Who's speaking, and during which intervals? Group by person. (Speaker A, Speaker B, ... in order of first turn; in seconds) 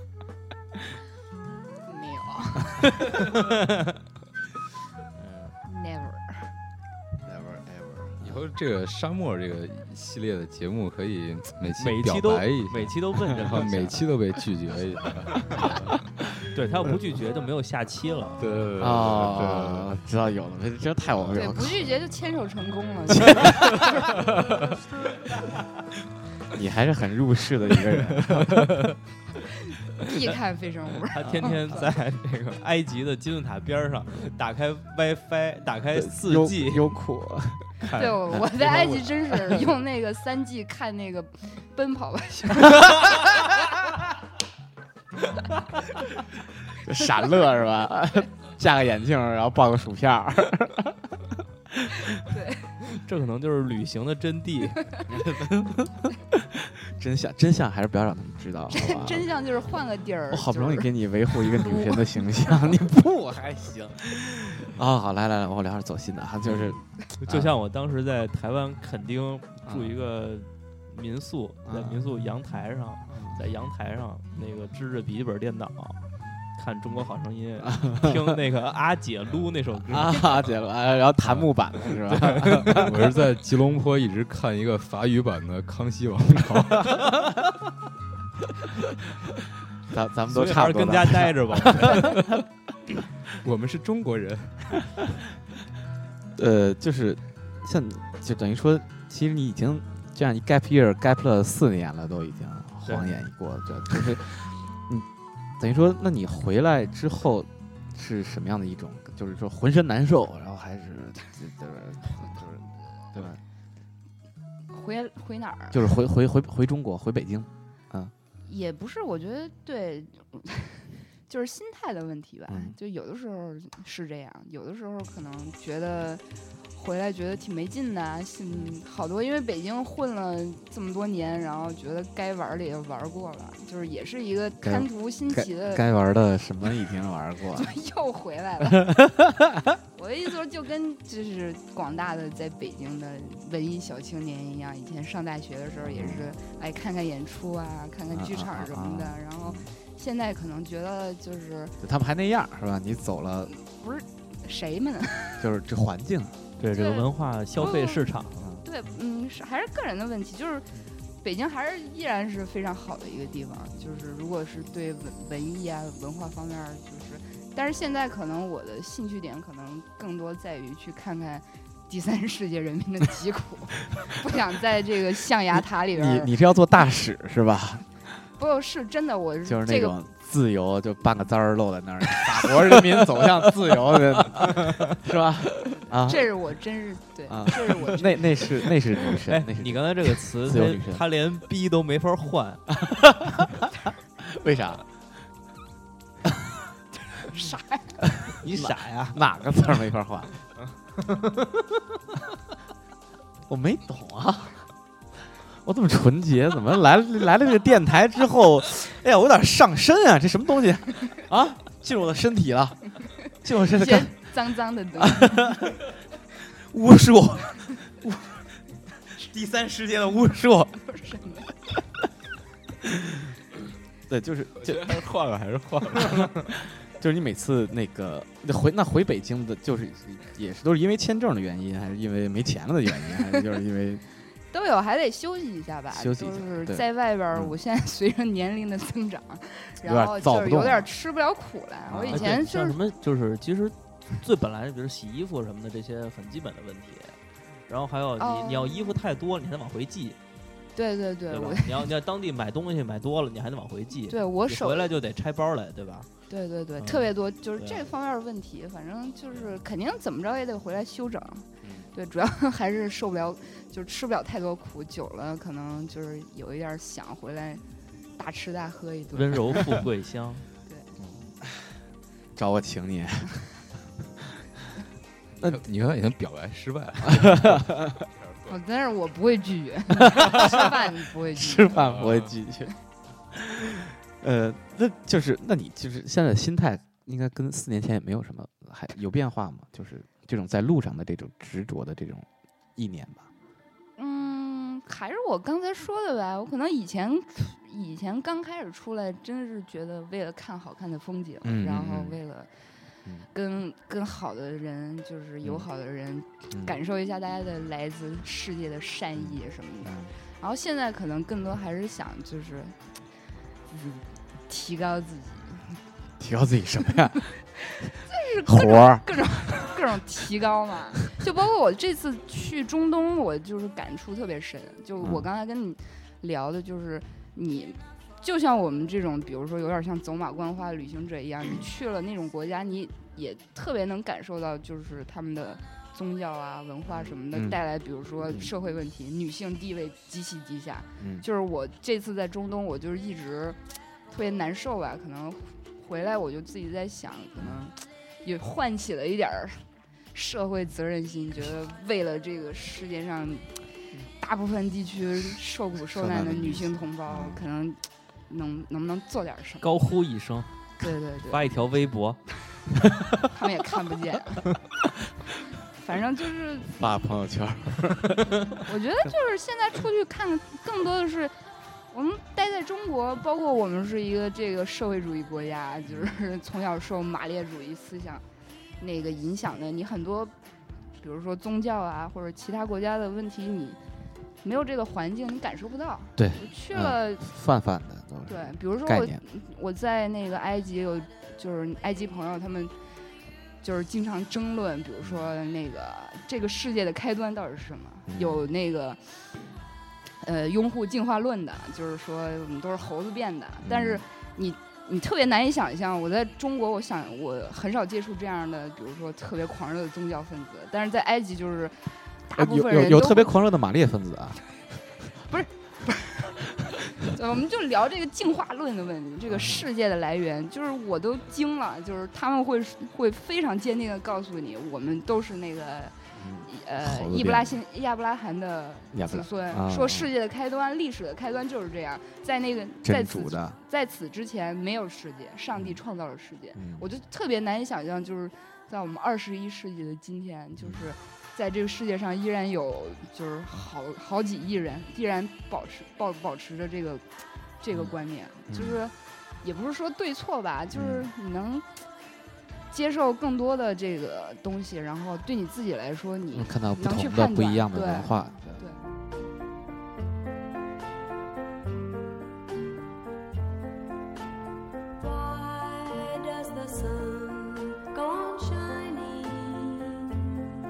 Speaker A: 1.9-2.9, 5.7-6.5, 21.4-24.1, 30.0-31.8, 38.0-43.0, 52.1-52.8, 58.7-62.6, 114.7-115.8, 118.5-135.8, 137.6-139.0, 139.9-151.8, 153.5-155.4, 156.7-157.1, 157.6-158.1, 158.6-160.7, 161.2-176.3, 178.4-180.0, 186.0-188.5, 197.3-198.0, 213.7-215.6, 220.9-221.5, 234.5-242.8, 248.2-248.9, 250.8-251.9, 254.1-254.9, 256.3-267.6, 268.1-269.6, 278.5-281.8, 294.0-302.5, 303.3-312.8, 313.7-315.8, 317.7-343.6, 344.1-359.6, 360.8-361.4, 363.3-364.5, 365.7-366.8, 368.6-378.2, 378.8-380.3, 381.0-383.8, 384.4-387.3, 388.3-392.8, 393.6-399.2, 400.2-413.4, 415.3-416.4, 416.9-451.7, 452.7-458.9
Speaker B: 5.2-5.5, 11.8-14.0, 16.5-18.5, 31.1-36.9, 37.8-38.2, 52.9-55.0, 67.2-76.0, 76.6-80.4, 90.3-92.2, 102.8-103.2, 156.6-158.4, 189.3-192.6, 198.4-199.2, 242.1-250.2, 251.3-256.1, 256.8-257.9, 269.1-270.5, 359.6-360.6, 361.3-362.2
Speaker C: 7.3-8.4, 18.8-21.9, 23.1-23.9, 26.5-28.7, 35.9-37.7, 38.3-39.0, 42.8-43.0, 46.8-51.1, 55.1-59.3, 60.3-67.5, 69.7-69.9, 71.7-72.0, 73.1-73.4, 77.7-78.2, 79.9-83.0, 89.9-92.1, 96.4-105.1, 105.6-113.4, 115.7-118.1, 122.5-122.8, 134.6-137.7, 138.7-139.7, 145.8-146.2, 148.1-149.7, 151.8-153.5, 155.4-156.4, 158.3-158.6, 175.9-177.8, 179.4-186.3, 187.3-191.0, 192.8-193.5, 194.2-194.8, 198.5-200.3, 203.5-204.6, 205.6-214.1, 215.0-215.8, 216.6-218.2, 219.2-220.8, 224.1-225.1, 226.0-234.0, 235.9-237.6, 239.8-240.9, 241.9-242.3, 261.6-261.9, 272.4-273.4, 277.1-278.0, 280.1-280.7, 281.3-282.7, 283.4-293.3, 301.4-302.2, 309.2-310.1, 316.2-317.3, 318.4-319.1, 337.3-337.6, 341.0-341.3, 355.9-357.4, 366.7-368.5, 386.2-389.2, 398.1-398.5, 403.6-404.0, 412.4-414.4, 419.3-419.6, 426.2-427.6, 428.9-430.1, 432.8-433.6, 436.6-436.8, 448.5-448.8, 450.7-451.1, 456.3-458.6
Speaker D: 8.2-16.0, 18.4-19.9, 81.2-81.5, 82.5-87.2, 93.4-94.8, 224.7-226.2, 275.4-278.6, 281.8-282.3
Speaker E: 465.0-470.1